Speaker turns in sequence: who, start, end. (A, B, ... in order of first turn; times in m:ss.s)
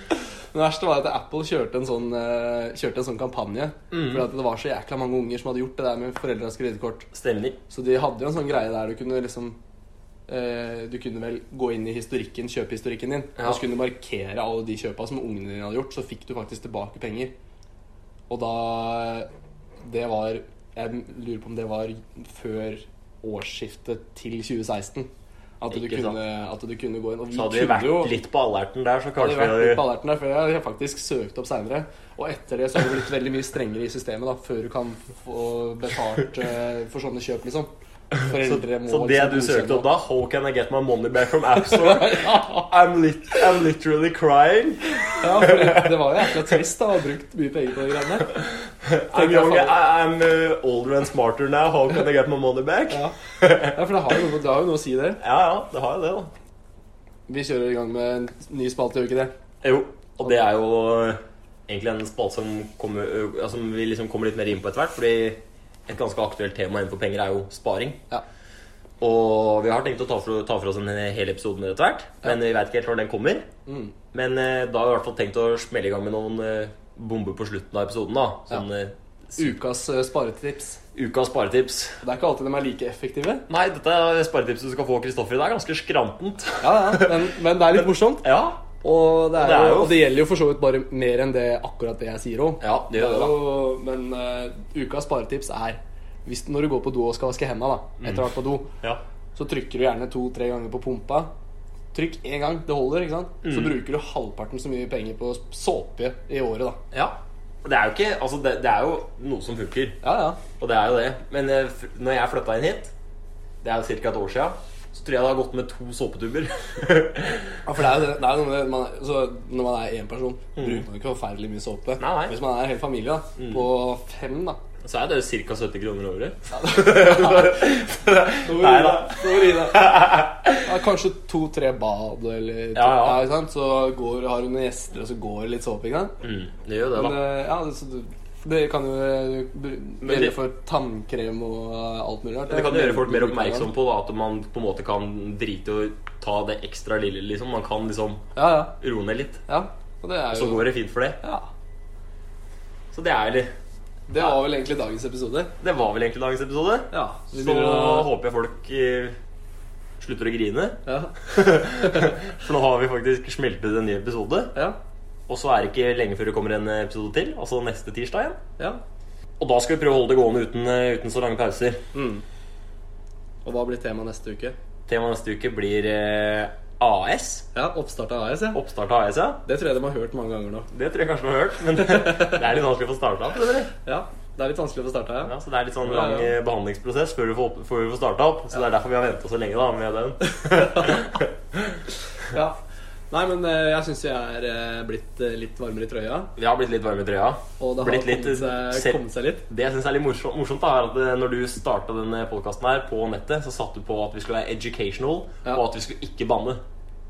0:00.5-0:07.1 A
0:03.9-0:04.2 B
0:07.1-0:07.6 B
0:07.7-0:09.6 A
0:10.3-0:17.3 A
0:13.4-0:13.6 B
0:18.3-0:19.3 A
0:19.8-0:28.1 A
0:25.7-0:26.2 B
0:27.3-0:29.8 B
0:29.2-0:39.9 A
0:38.2-0:46.0 B
0:41.6-0:42.7 A
0:45.1-0:48.4 A
0:48.7-0:53.8 B
0:49.1-0:49.8 A
0:52.9-0:55.2 A
0:55.2-0:56.3 B
0:57.3-0:59.3 A
0:59.6-1:08.0 B
1:09.0-1:13.5 B
1:13.6-1:13.9 A
1:14.1-1:19.5 B
1:19.4-1:20.8 A
1:20.9-1:22.0 B
1:22.0-1:23.4 A
1:23.5-1:27.2 B
1:26.6-1:38.7 A
1:27.8-1:28.7 B
1:29.3-1:30.1 B
1:32.6-1:33.5 B
1:38.0-1:38.3 B
1:39.3-1:41.3 A
1:41.9-1:46.8 A
1:43.4-1:43.8 B
1:46.9-1:50.0 B
1:50.0-1:50.4 A
1:50.6-1:52.9 B
1:53.6-1:57.6 B
1:57.6-2:04.6 A
2:00.6-2:00.8 B
2:02.0-2:02.4 B
2:03.4-2:03.6 B
2:04.8-2:10.6 B
2:06.5-2:07.7 A
2:08.4-2:16.2 A
2:12.7-2:13.2 B
2:16.2-2:17.2 B
2:16.9-2:23.7 A
2:20.0-2:20.4 B
2:22.5-2:29.4 B
2:28.3-2:28.8 A
2:29.5-2:30.7 A
2:30.3-2:31.2 B
2:31.2-2:31.5 A
2:32.9-2:33.5 B
2:34.1-2:35.5 A
2:35.6-2:39.2 B
2:36.9-2:38.1 A
2:40.0-2:44.6 B
2:40.8-2:42.2 A
2:45.3-2:48.4 B
2:49.4-2:51.8 B
2:51.9-2:52.2 A
2:53.4-2:54.6 A
2:54.9-2:57.4 B
2:57.5-2:58.6 A
2:58.5-2:59.4 B
2:59.4-3:00.7 A
3:00.7-3:03.7 B
3:01.8-3:02.4 A
3:03.8-3:06.3 A
3:05.2-3:11.8 B
3:12.2-3:12.6 A
3:13.1-3:16.3 A
3:16.4-3:26.6 B
3:17.6-3:19.4 A